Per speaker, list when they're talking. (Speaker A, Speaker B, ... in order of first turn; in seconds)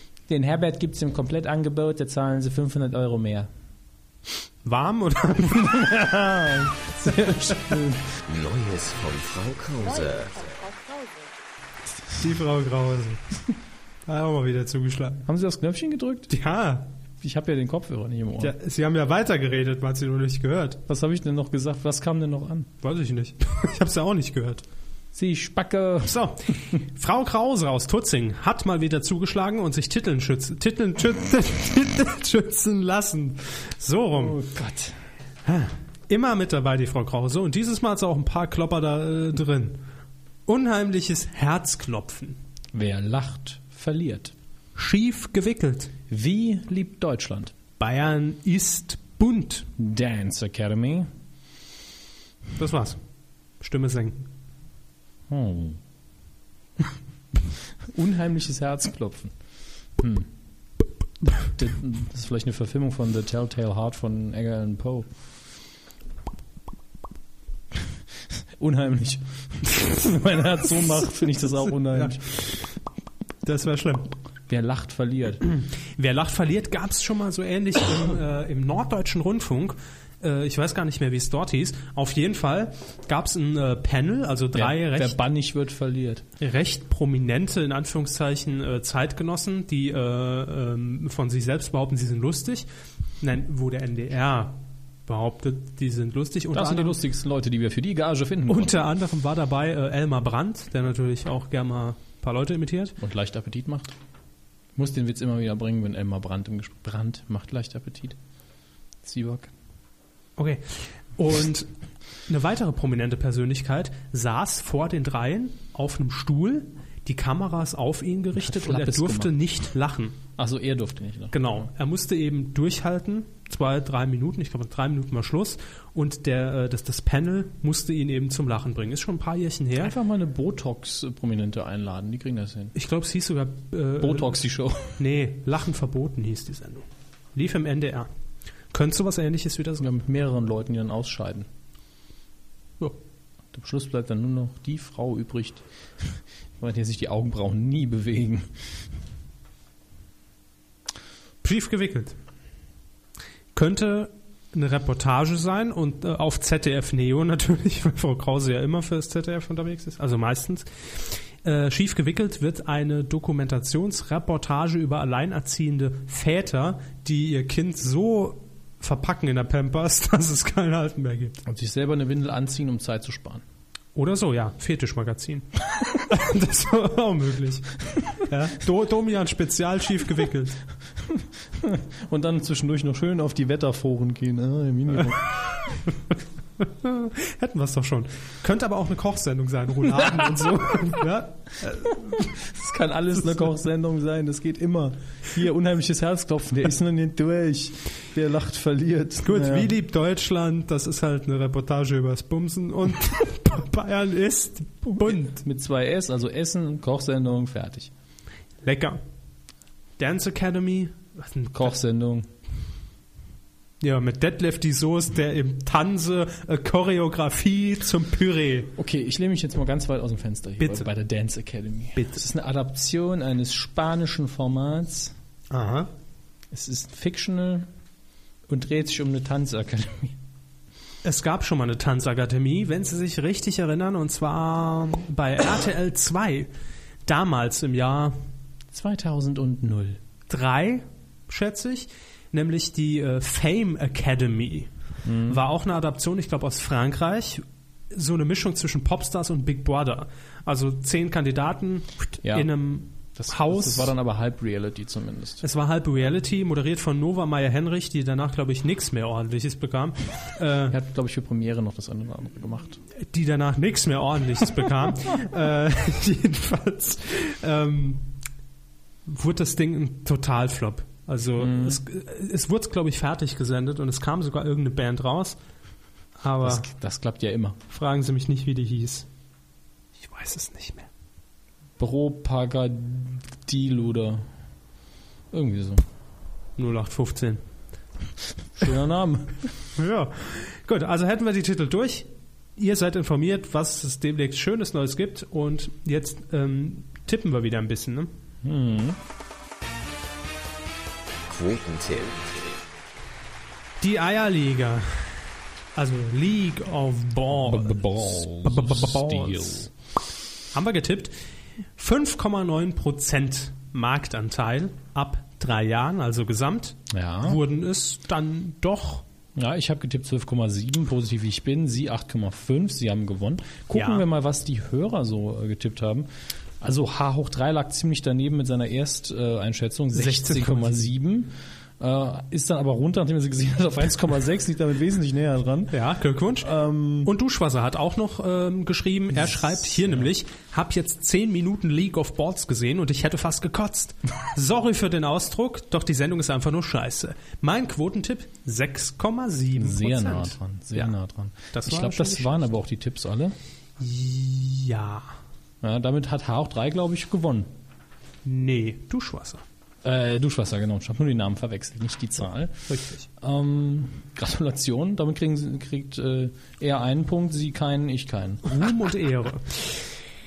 Speaker A: 0.3-3.5, 5.5-8.1, 15.2-16.3, 17.2-18.5, 20.9-22.7, 25.1-26.2, 34.1-35.0, 42.7-44.3, 46.1-47.5, 49.8-51.1, 55.3-55.8, 57.8-59.3, 60.0-60.3, 61.2-65.1, 68.6-72.2, 74.5-75.4, 84.5-86.2, 96.5-98.8, 103.0-103.9, 104.8-108.2, 109.0-109.5, 118.3-119.3, 120.3-121.6, 129.8-132.7, 134.0-135.0, 139.8-141.5, 143.5-148.6, 171.4-173.4, 181.0-185.7, 190.0-190.6, 192.1-199.7, 204.9-207.9, 211.5-212.3, 218.8-225.1, 226.5-227.7, 228.5-230.2, 238.7-240.0, 245.0-245.4, 252.2-255.4, 260.7-262.8, 271.4-271.8, 276.4-277.6, 281.8-284.2, 285.3-285.8, 288.6-289.5, 298.4-299.0, 307.3-309.7, 316.9-317.4, 319.4-326.1, 326.6-335.8, 336.4-337.1, 339.1-340.1, 349.6-353.3, 355.6-357.5, 359.8-368.8
Speaker B: 4.6-5.9, 12.1-13.2, 14.1-15.2, 16.3-16.9, 18.4-20.8, 22.8-24.6, 26.0-34.4, 35.4-39.8, 40.5-42.4, 44.8-45.9, 47.8-49.7, 52.6-53.0, 53.6-54.3, 71.9-72.6, 73.4-74.1, 75.5-85.2, 86.4-92.7, 93.2-97.0, 98.5-103.0, 110.4-111.7, 112.3-120.2, 121.3-129.9, 132.7-134.4, 135.0-138.1, 138.7-139.9, 151.4-152.2, 153.5-171.4, 173.9-180.6, 186.6-192.3, 199.2-205.4, 208.6-209.0, 210.0-211.7, 213.8-218.7, 220.6-220.9, 221.9-222.2, 225.5-225.9, 231.0-236.5, 237.1-238.1, 240.3-244.7, 245.2-253.9, 255.4-260.8, 263.0-268.1, 269.1-275.4, 276.2-276.6, 277.7-279.1, 280.0-280.9, 286.6-287.4, 289.8-298.1, 303.8-305.2, 305.7-309.7, 310.5-311.1, 311.8-319.0, 323.7-324.0, 329.9-330.9, 335.7-336.5, 337.0-350.9, 351.5-352.3, 353.8-355.1, 358.2-359.4, 362.7-363.1, 368.4-369.9
Speaker C: 8.3-10.7, 301.3-302.6